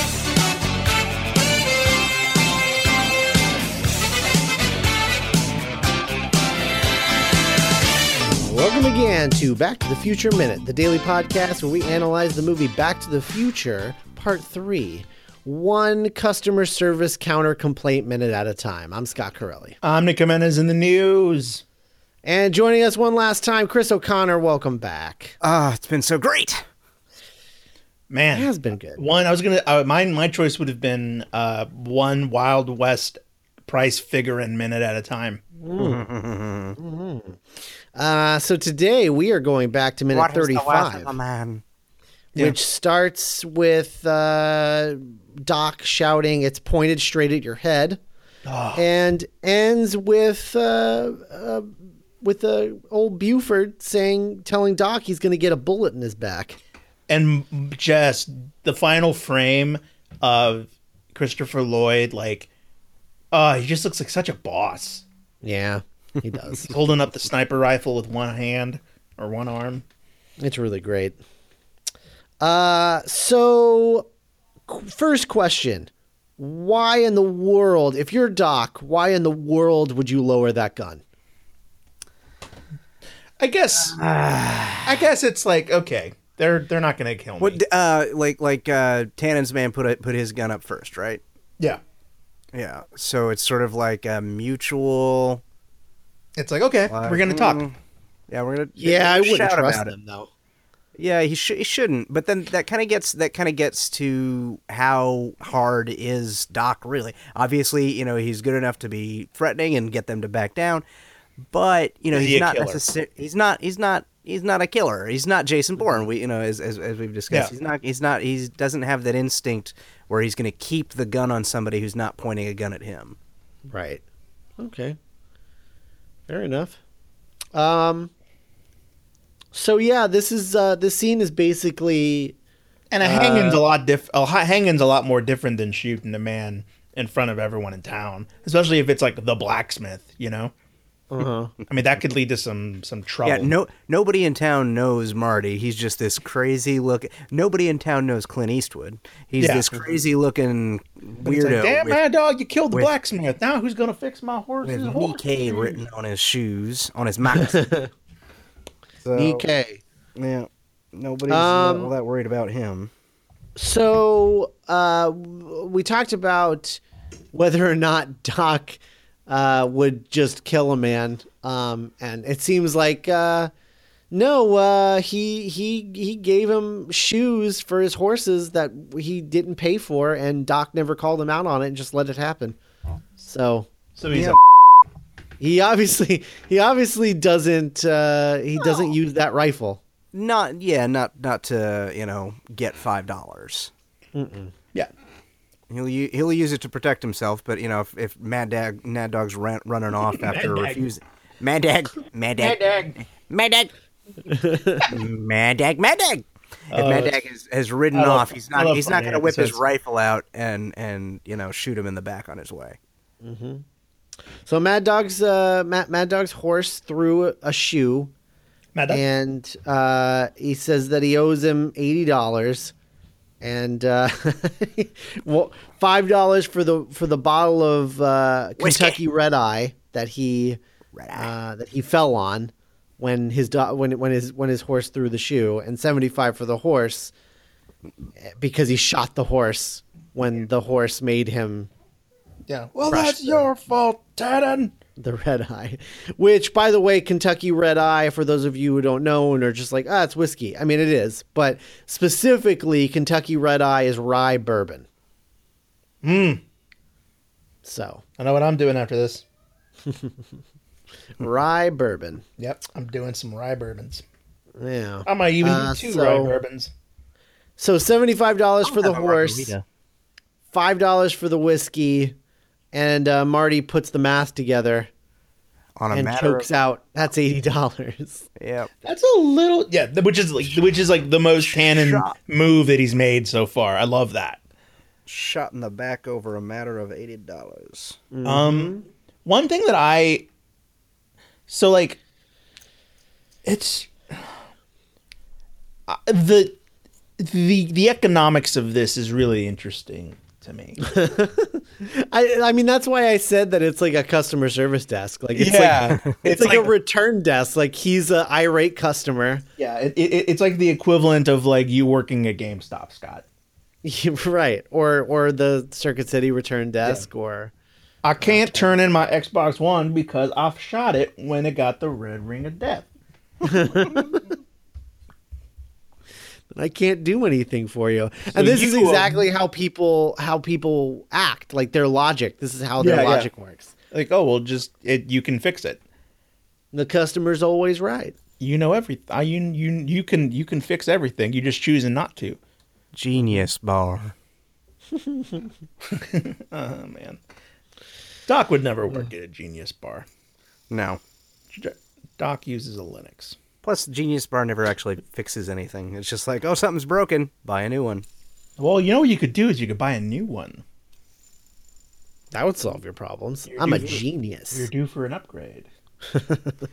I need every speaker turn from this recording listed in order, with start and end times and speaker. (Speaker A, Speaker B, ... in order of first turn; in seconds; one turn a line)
Speaker A: 8.2-19.8
Speaker B: 19.8-21.6
Speaker A: 22.2-25.3
Speaker C: 25.4-26.6
Speaker B: 28.1-35.4
Speaker A: 28.3-29.0
Speaker A: 35.6-36.0
Speaker C: 35.8-36.8
Speaker A: 36.8-41.1
Speaker C: 40.1-41.6
Speaker A: 42.4-48.0
Speaker B: 48.5-48.8
Speaker A: 48.7-56.6
Speaker B: 57.1-62.5
Speaker B: 63.3-65.0
Speaker A: 65.4-66.7
Speaker B: 66.7-69.8
Speaker A: 70.4-71.2
Speaker A: 72.4-74.1
Speaker A: 74.7-81.0
Speaker B: 83.4-84.0
Speaker C: 83.8-85.1
Speaker B: 84.8-87.6
Speaker C: 87.4-91.2
Speaker C: 92.5-95.4
Speaker B: 96.3-97.6
Speaker C: 96.9-97.8
Speaker C: 98.3-99.9
Speaker A: 98.8-100.3
Speaker C: 101.0-110.8
Speaker C: 111.5-123.2
Speaker B: 112.1-112.8
Speaker A: 123.7-124.0
Speaker A: 124.6-125.0
Speaker A: 126.3-126.8
Speaker A: 127.5-128.1
Speaker A: 129.5-132.3
Speaker B: 132.9-140.5
Speaker A: 133.0-133.6
Speaker A: 141.1-141.5
Speaker B: 141.7-143.5
Speaker C: 143.2-152.0
Speaker B: 149.4-149.7
Speaker B: 151.2-155.8
Speaker C: 154.6-157.6
Speaker A: 157.3-157.9
Speaker C: 159.0-159.4
Speaker A: 159.1-159.8
Speaker C: 160.2-162.9
Speaker A: 161.3-161.9
Speaker A: 163.6-166.8
Speaker A: 167.3-173.5
Speaker A: 174.1-182.6
Speaker A: 183.2-183.7
Speaker B: 183.9-184.4
Speaker C: 184.1-184.4
Speaker A: 185.4-189.8
Speaker C: 188.6-188.9
Speaker C: 190.1-193.7
Speaker A: 194.1-194.5
Speaker C: 195.7-203.7
Speaker B: 200.2-200.9
Speaker B: 202.4-202.9
Speaker A: 204.2-204.9
Speaker C: 204.8-212.8
Speaker B: 206.7-207.2
Speaker B: 207.9-209.6
Speaker A: 213.2-213.6
Speaker A: 214.4-218.1
Speaker B: 218.7-219.0
Speaker A: 218.9-222.7
Speaker A: 223.4-230.6
Speaker C: 228.6-229.0
Speaker C: 230.9-231.3
Speaker A: 231.1-237.1
Speaker A: 238.3-241.7
Speaker B: 242.5-244.7
Speaker A: 242.9-243.5
Speaker A: 245.0-254.8
Speaker B: 256.0-256.4
Speaker A: 257.6-258.0
Speaker B: 258.2-259.2
Speaker A: 259.9-260.1
Speaker A: 261.2-262.2
Speaker B: 262.4-264.0
Speaker A: 264.6-266.3
Speaker B: 265.1-266.7
Speaker A: 267.6-269.5
Speaker C: 268.6-269.6
Speaker A: 270.5-272.1
Speaker A: 272.7-274.9
Speaker C: 275.8-276.5
Speaker A: 275.9-278.2
Speaker C: 278.4-278.7
Speaker B: 278.8-284.4
Speaker C: 281.4-282.2
Speaker C: 285.1-288.0
Speaker A: 288.1-288.9
Speaker B: 288.2-288.7
Speaker B: 289.2-290.2
Speaker B: 291.5-292.0
Speaker B: 293.4-294.2
Speaker B: 295.9-296.6
Speaker B: 297.2-300.8
Speaker A: 300.8-309.4
Speaker B: 305.3-306.7
Speaker B: 309.6-313.2
Speaker A: 313.8-317.5
Speaker B: 318.0-322.9
Speaker A: 318.2-318.8
Speaker A: 323.4-324.2
Speaker A: 326.5-333.7
Speaker B: 328.3-329.2
Speaker B: 332.8-333.3
Speaker B: 333.9-335.8
Speaker A: 336.7-338.1
Speaker B: 338.4-342.4
Speaker C: 342.9-344.1
Speaker B: 345.9-347.2
Speaker B: 348.3-350.1
Speaker C: 350.7-351.0
Speaker B: 351.5-353.4
Speaker C: 353.6-358.0
Speaker B: 358.6-360.6
Speaker A: 362.3-364.7
Speaker B: 363.5-365.7
Speaker A: 366.1-366.6